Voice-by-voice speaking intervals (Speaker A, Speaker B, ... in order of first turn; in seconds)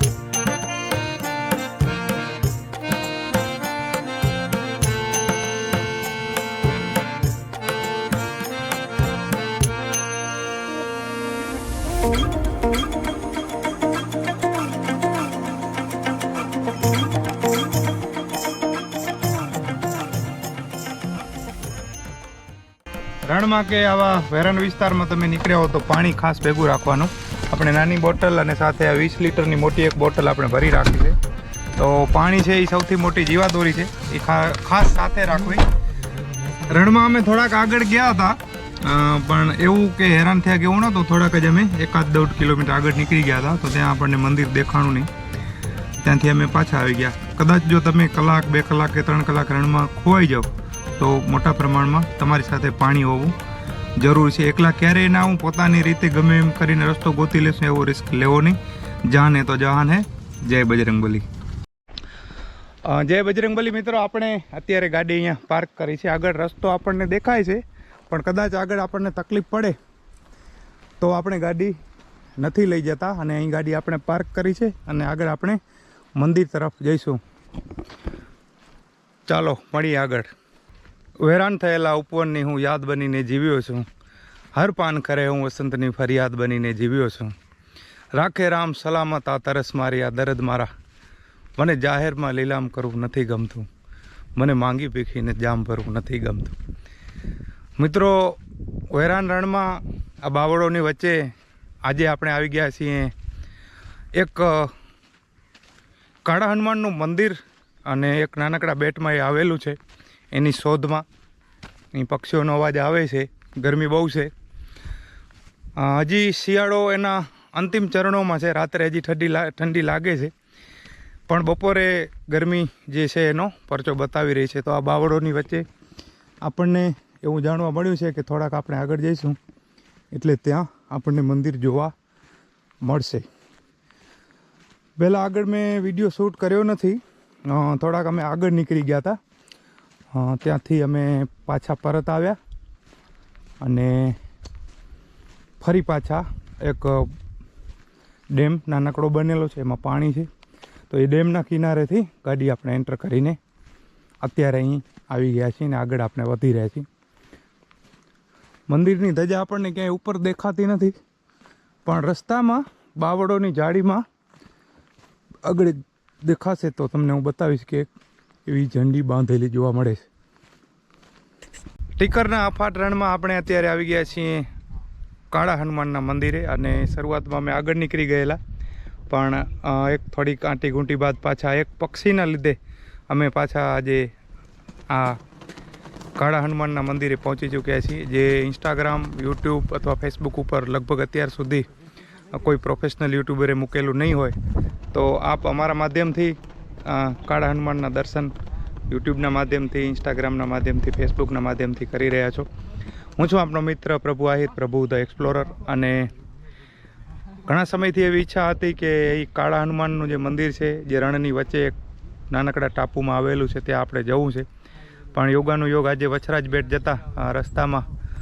Speaker A: 23.2-31.1, 31.8-35.7, 36.5-45.1, 46.0-53.4, 54.0-61.2, 62.9-69.8, 71.0-71.7, 72.4-75.6, 76.2-77.2, 79.3-80.3, 81.2-83.8, 84.5-87.3, 88.1-90.7, 91.6-93.7, 94.4-96.5, 97.8-98.4, 98.9-101.2, 101.8-103.1, 104.2-104.7, 106.2-107.4, 107.9-109.8, 110.3-111.0, 111.9-114.3, 115.8-120.3, 121.3-125.6, 126.4-129.4, 130.1-131.9, 132.8-133.2, 135.0-139.2, 140.1-142.4, 143.6-144.2, 145.6-147.2, 148.3-150.3, 150.9-153.4, 154.2-156.8, 158.7-160.9, 161.8-164.0, 165.4-167.9, 168.5-170.1, 172.0-174.5, 175.3-178.4, 179.1-182.6, 183.1-184.1, 184.9-185.2, 186.2-191.7, 192.3-194.3, 194.9-198.3, 198.9-202.4, 203.2-206.1, 207.4-211.8, 212.3-214.4, 215.1-217.9